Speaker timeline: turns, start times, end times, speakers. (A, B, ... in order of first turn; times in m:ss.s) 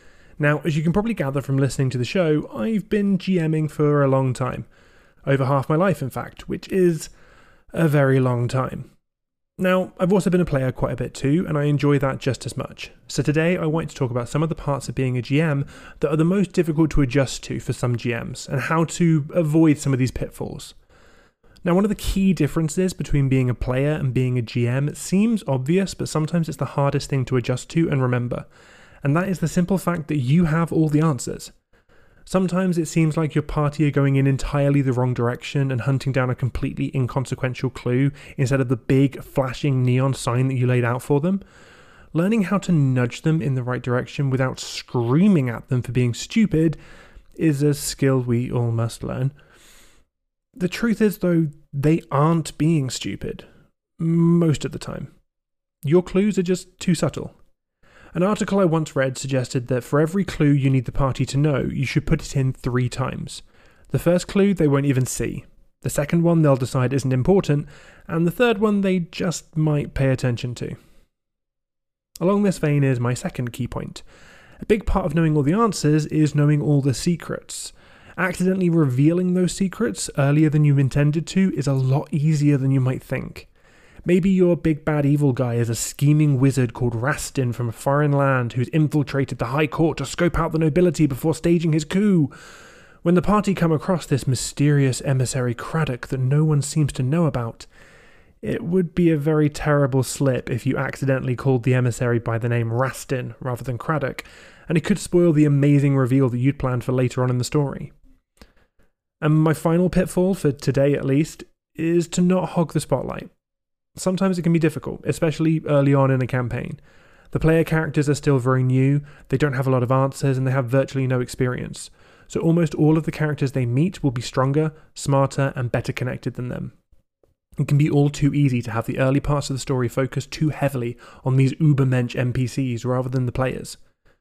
0:00.4-0:04.7 A
0:05.2-0:07.1 A
0:07.7-0:08.9 A
0:09.6-0:20.7 A
0:21.6-0:28.5 A
0:29.0-0:31.5 A
0:32.3-0:41.4 A
0:42.1-0:46.8 A
0:47.4-0:49.3 A
0:50.6-0:53.5 A
0:54.0-0:55.1 A
0:55.8-0:57.3 A
0:58.1-1:10.8 A
1:12.2-1:14.0 A
1:14.6-1:23.5 A
1:24.0-1:32.3 A
1:33.0-1:37.7 A
1:38.4-1:47.9 A
1:49.2-1:53.3 A
1:54.0-1:56.8 A
1:57.3-2:06.7 A
2:07.6-2:13.8 A